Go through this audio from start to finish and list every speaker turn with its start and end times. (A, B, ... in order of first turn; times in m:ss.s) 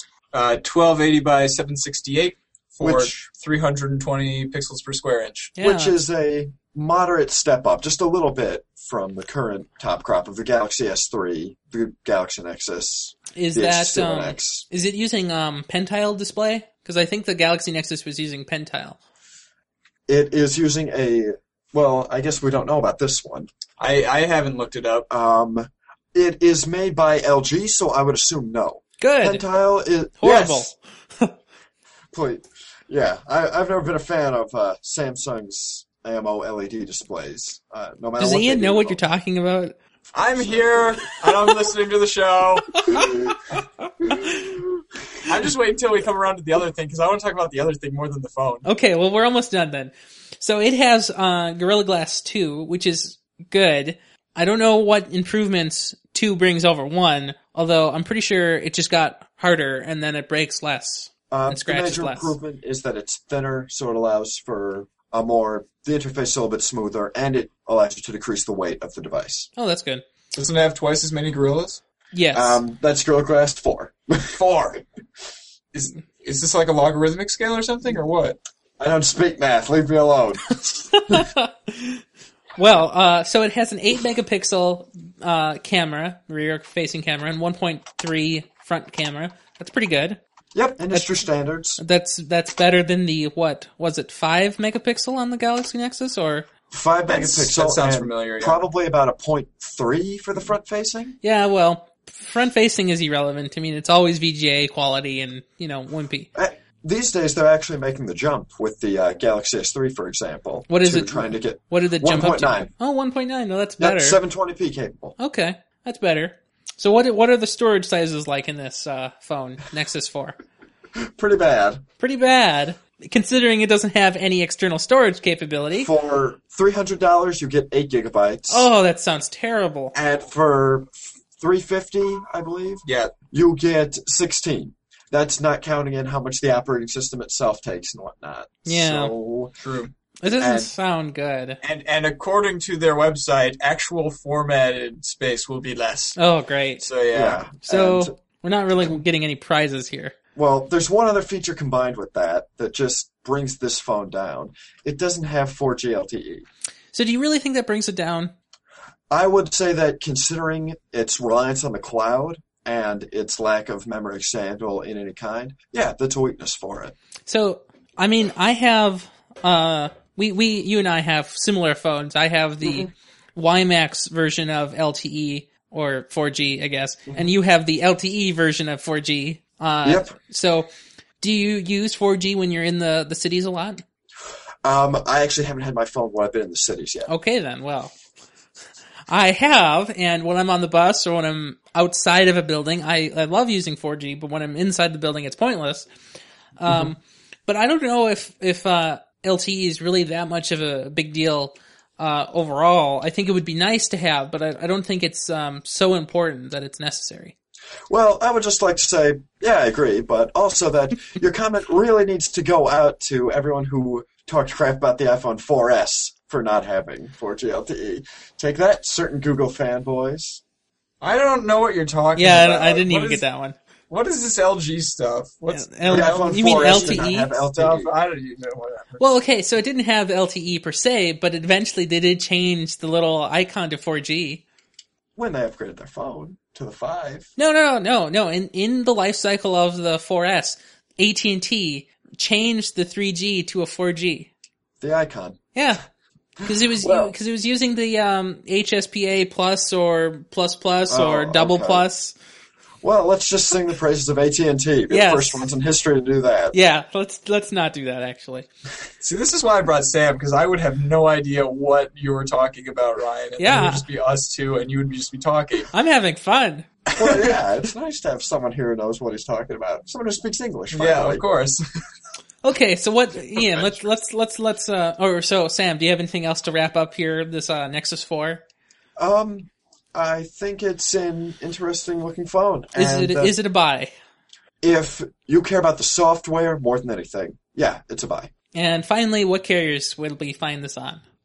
0:00.3-0:05.5 A
0:02.8-0:03.3 B
0:05.6-0:06.0 C
0:05.6-0:14.6 B
0:13.3-0:19.0 C
0:20.1-0:23.5 B
0:23.8-0:25.1 A
0:25.1-0:30.7 B
0:29.0-0:29.4 C
0:30.2-0:31.4 C
0:32.1-0:39.0 B
0:38.2-0:39.7 C
0:40.1-0:43.1 A
0:40.4-0:41.0 B
0:42.9-0:43.2 B
0:45.2-0:48.6 A
0:48.6-1:02.3 C
1:01.3-1:09.5 B
1:09.6-1:10.0 C
1:10.3-1:11.8 A
1:12.1-1:12.6 C
1:12.3-1:14.4 B
1:14.3-1:14.8 A
1:15.7-1:18.4 A
1:18.8-1:21.3 B
1:21.1-1:22.0 C
1:22.6-1:30.2 C
1:30.5-1:31.8 B
1:30.9-1:31.2 C
1:31.8-1:36.5 C
1:36.7-1:41.2 B
1:37.1-1:38.6 A
1:41.2-1:46.3 C
1:46.3-1:52.7 B
1:50.7-1:54.2 C
1:53.8-1:55.1 B
1:55.2-2:00.4 C
2:00.9-2:01.8 B
2:02.0-2:05.9 C
2:05.8-2:08.7 B
2:08.5-2:09.9 C
2:09.9-2:19.5 B
2:12.8-2:13.1 A
2:18.6-2:19.1 C
2:19.6-2:19.9 A
2:20.2-2:21.6 C
2:20.2-2:20.7 B
2:21.6-2:26.2 A
2:26.2-2:26.9 C
2:26.8-2:27.4 A
2:27.1-2:28.2 B
2:27.6-2:30.1 C
2:30.4-2:36.4 B
2:36.9-2:38.3 C
2:39.1-2:46.9 B
2:47.3-3:00.7 C
2:52.6-2:52.9 B
2:59.8-3:00.1 B
3:01.2-3:03.8 C
3:04.6-3:07.1 B
3:07.1-3:07.9 C
3:09.1-3:15.9 C
3:16.6-3:27.3 C
3:27.9-3:40.4 B
3:41.0-3:43.2 A
3:42.2-3:43.5 C
3:43.9-3:49.0 A
3:45.5-3:47.4 C
3:45.9-3:47.9 B
3:49.0-3:54.4 C
3:55.2-3:57.3 B
3:57.4-4:04.3 C
4:04.8-4:05.4 B
4:05.5-4:05.8 C
4:06.4-4:07.1 B
4:06.4-4:12.1 C
4:10.9-4:11.8 B
4:12.8-4:16.5 B
4:14.9-4:15.5 C
4:16.5-4:18.5 C
4:19.0-4:25.7 A
4:23.4-4:23.8 C
4:25.7-4:26.6 C
4:26.9-4:27.4 A
4:26.9-4:31.2 B
4:30.7-4:31.6 A
4:32.4-4:38.4 C
4:39.0-4:43.3 B
4:42.7-4:43.9 C
4:44.6-4:48.3 B
4:48.5-4:51.0 C